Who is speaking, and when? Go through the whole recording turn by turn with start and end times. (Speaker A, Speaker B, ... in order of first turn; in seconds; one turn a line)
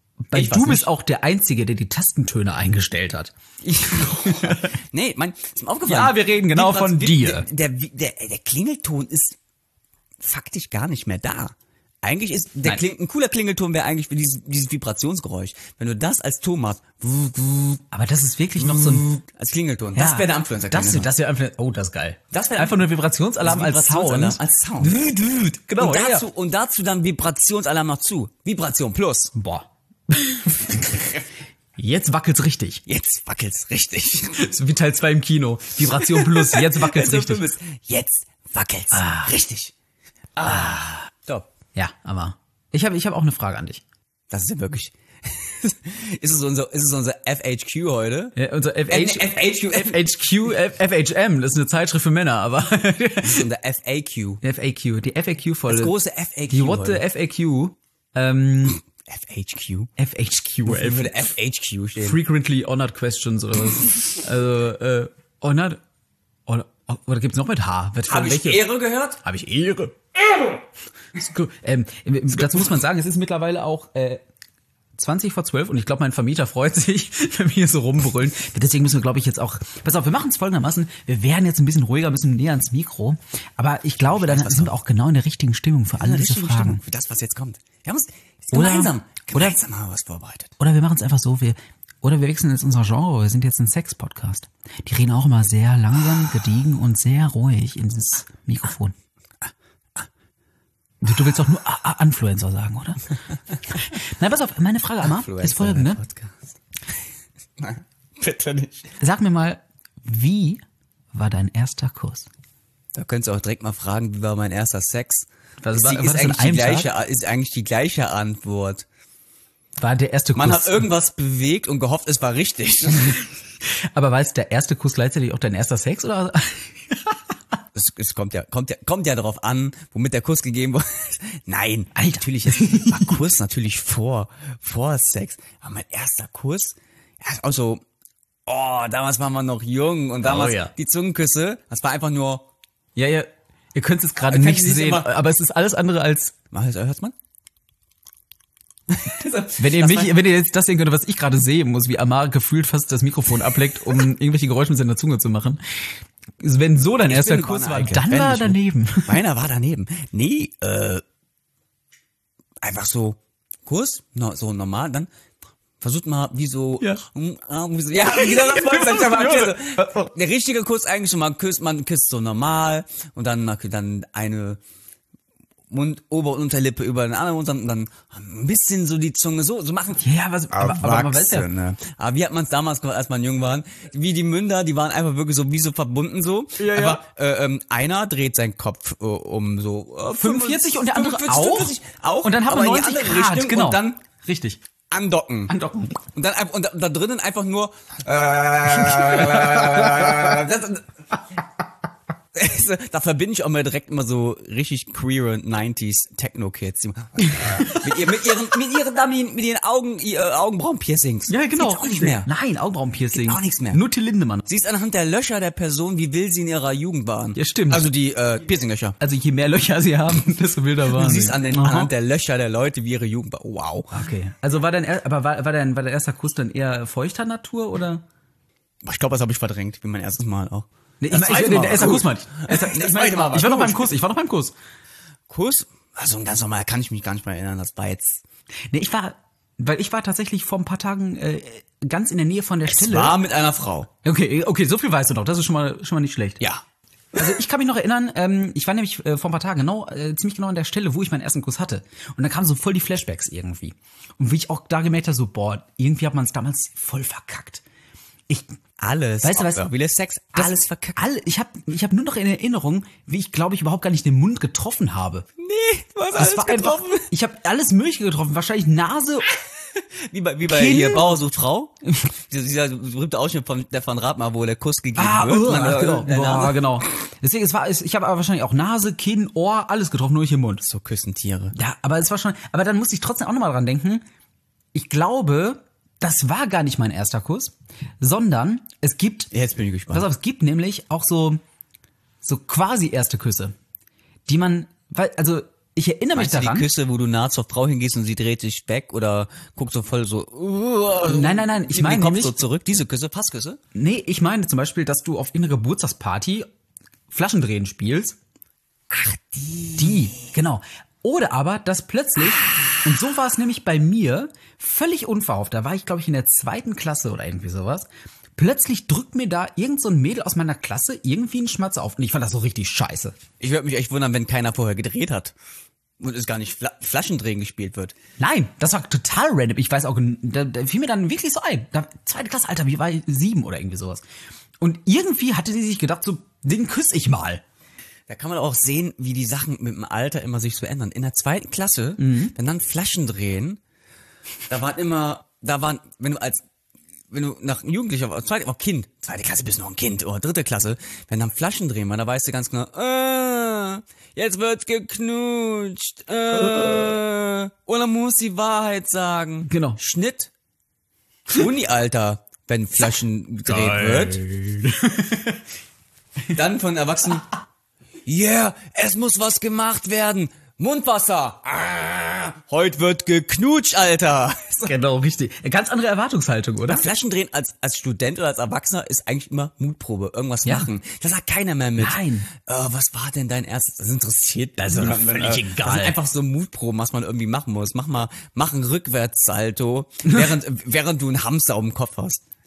Speaker A: 0.3-3.3
Speaker B: 0.3-0.9
Speaker B: 3.6-9.4
Speaker A: 4.0-4.7
Speaker A: 5.8-7.5
Speaker B: 10.2-17.8
Speaker A: 17.9-19.1
Speaker B: 18.6-21.1
Speaker A: 19.9-26.2
Speaker B: 22.3-25.2
Speaker B: 25.8-29.3
Speaker A: 29.3-31.1
Speaker B: 30.8-31.2
Speaker A: 31.8-32.8
Speaker B: 32.9-34.4
Speaker A: 34.3-37.5
Speaker B: 35.9-39.7
Speaker A: 38.9-39.3
Speaker B: 40.4-41.5
Speaker A: 41.7-43.8
Speaker B: 44.3-48.4
Speaker A: 48.4-53.4
Speaker B: 48.9-50.1
Speaker B: 53.2-54.4
Speaker A: 54.4-55.9
Speaker B: 55.7-57.0
Speaker A: 56.5-58.8
Speaker B: 59.0-59.9
Speaker A: 60.0-61.1
Speaker B: 60.6-62.2
Speaker A: 62.0-65.8
Speaker A: 66.5-68.7
Speaker B: 68.1-69.2
Speaker A: 69.2-70.0
Speaker A: 71.2-74.2
Speaker A: 75.0-86.8
Speaker B: 84.1-84.7
Speaker B: 85.9-90.5
Speaker A: 88.5-89.6
Speaker A: 90.6-98.9
Speaker A: 101.0-103.1
Speaker A: 103.7-106.0
Speaker B: 105.0-106.5
Speaker B: 107.6-109.0
Speaker A: 109.0-110.6
Speaker A: 111.1-112.3
Speaker B: 112.9-118.8
Speaker A: 115.6-116.9
Speaker A: 119.8-120.9
Speaker B: 120.3-123.2
Speaker A: 123.9-127.2
Speaker B: 127.7-137.8
Speaker A: 131.9-133.1
Speaker B: 138.4-142.5
Speaker A: 140.2-140.7
Speaker A: 142.9-146.3
Speaker B: 144.2-145.1
Speaker B: 146.5-147.1
Speaker B: 148.9-150.2
Speaker A: 149.6-155.8
Speaker A: 156.4-159.2
Speaker B: 157.1-161.0
Speaker B: 162.6-165.1
Speaker B: 165.8-174.6
Speaker A: 167.9-170.1
Speaker B: 175.7-194.0
Speaker A: 180.0-181.5
Speaker A: 186.6-187.0
Speaker A: 190.1-194.6
Speaker B: 194.9-200.9
Speaker A: 195.5-196.0
Speaker B: 202.3-212.3
Speaker A: 207.2-208.2
Speaker A: 211.3-214.4
Speaker B: 213.1-213.8
Speaker B: 214.4-219.0
Speaker A: 217.3-217.9
Speaker A: 219.0-221.9
Speaker B: 220.9-224.0
Speaker A: 223.9-228.0
Speaker B: 228.8-233.9
Speaker A: 231.0-234.5
Speaker B: 235.3-238.2
Speaker A: 238.7-243.2
Speaker B: 242.7-243.9
Speaker A: 244.0-246.4
Speaker A: 247.2-257.6
Speaker A: 258.3-258.5
Speaker B: 258.8-261.0
Speaker A: 259.2-259.7
Speaker A: 260.3-265.3
Speaker B: 265.4-267.1
Speaker A: 266.1-269.3
Speaker B: 269.7-276.8
Speaker A: 270.4-271.2
Speaker A: 274.9-280.6
Speaker B: 280.6-281.5
Speaker A: 281.5-284.0
Speaker A: 284.7-289.3
Speaker B: 289.3-290.1
Speaker A: 289.9-291.4
Speaker A: 292.2-293.5
Speaker A: 294.3-296.7
Speaker B: 296.1-303.6
Speaker A: 301.0-302.4
Speaker A: 303.7-306.5
Speaker A: 307.1-308.2
Speaker B: 308.9-310.1
Speaker A: 309.8-323.1
Speaker B: 323.4-325.3
Speaker B: 326.0-327.9
Speaker A: 328.2-334.0
Speaker A: 334.6-337.4
Speaker B: 338.1-343.6
Speaker A: 342.0-342.3
Speaker B: 344.5-346.4
Speaker B: 347.1-360.3
Speaker A: 356.4-356.9
Speaker A: 359.5-359.8
Speaker B: 361.3-364.2
Speaker A: 363.4-365.4
Speaker B: 366.3-367.3
Speaker B: 368.1-374.7
Speaker A: 374.6-376.9
Speaker B: 376.6-392.2
Speaker A: 381.8-382.3
Speaker A: 384.6-386.0